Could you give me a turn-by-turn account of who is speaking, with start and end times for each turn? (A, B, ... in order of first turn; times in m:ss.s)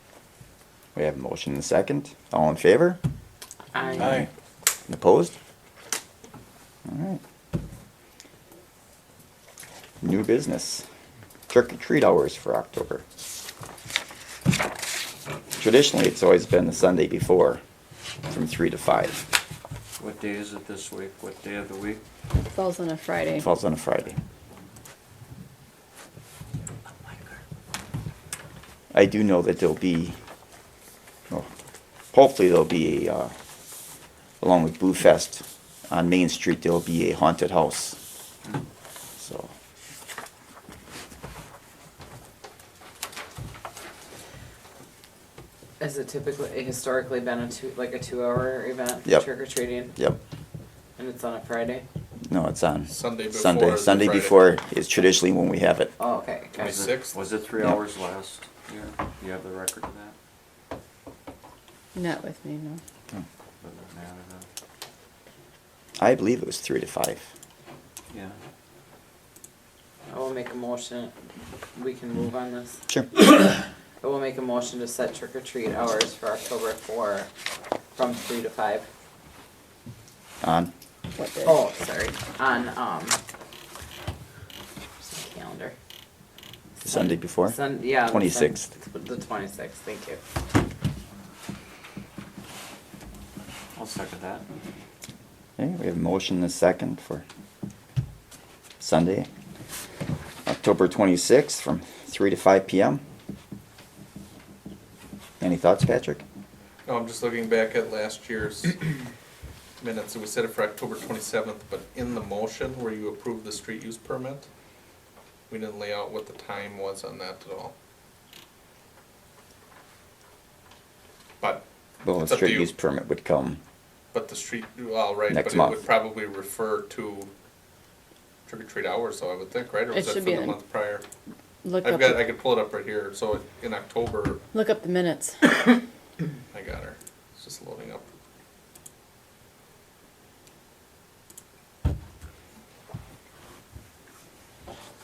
0:01.0-0:03.0 A
0:04.0-0:04.3 A
0:04.0-0:04.3 B
0:04.9-0:05.3 A
0:06.9-0:07.2 A
0:10.0-0:10.9 A
0:11.5-0:13.0 A
0:15.6-0:17.6 A
0:18.3-0:19.2 A
0:20.0-0:22.0 C
0:22.5-0:23.5 D
0:23.4-0:24.2 A
0:28.9-0:30.2 A
0:32.1-0:33.3 A
0:34.4-0:38.0 A
0:39.2-0:39.5 A
0:45.8-0:49.9 E
0:49.0-0:50.2 A
0:51.0-0:51.8 E
0:52.3-0:55.9 A
0:52.9-0:54.5 B
0:56.0-0:56.8 E
0:56.6-0:57.2 B
0:56.7-1:00.2 C
1:02.0-1:02.8 D
1:03.6-1:04.5 C
1:06.0-1:07.3 A
1:08.1-1:08.4 C
1:10.1-1:11.1 E
1:11.8-1:12.8 E
1:12.9-1:13.2 A
1:14.0-1:17.3 E
1:18.0-1:18.9 E
1:20.4-1:20.7 A
1:21.2-1:21.6 D
1:21.4-1:23.2 E
1:25.0-1:25.7 E
1:26.8-1:28.7 A
1:26.9-1:30.2 E
1:33.8-1:34.4 C
1:35.6-1:37.2 A
1:38.8-1:39.3 A
1:40.5-1:43.0 A
1:45.4-1:46.2 A
1:46.9-1:48.8 B
1:49.8-1:54.5 B
1:55.5-1:57.7 B
2:02.0-2:03.6 A
2:02.2-2:02.7 B
2:04.1-2:07.3 B
2:05.3-2:05.8 A
2:08.5-2:11.0 B
2:09.9-2:10.6 D
2:11.6-2:12.3 D
2:11.8-2:14.4 B
2:14.5-2:15.8 D
2:16.5-2:18.1 B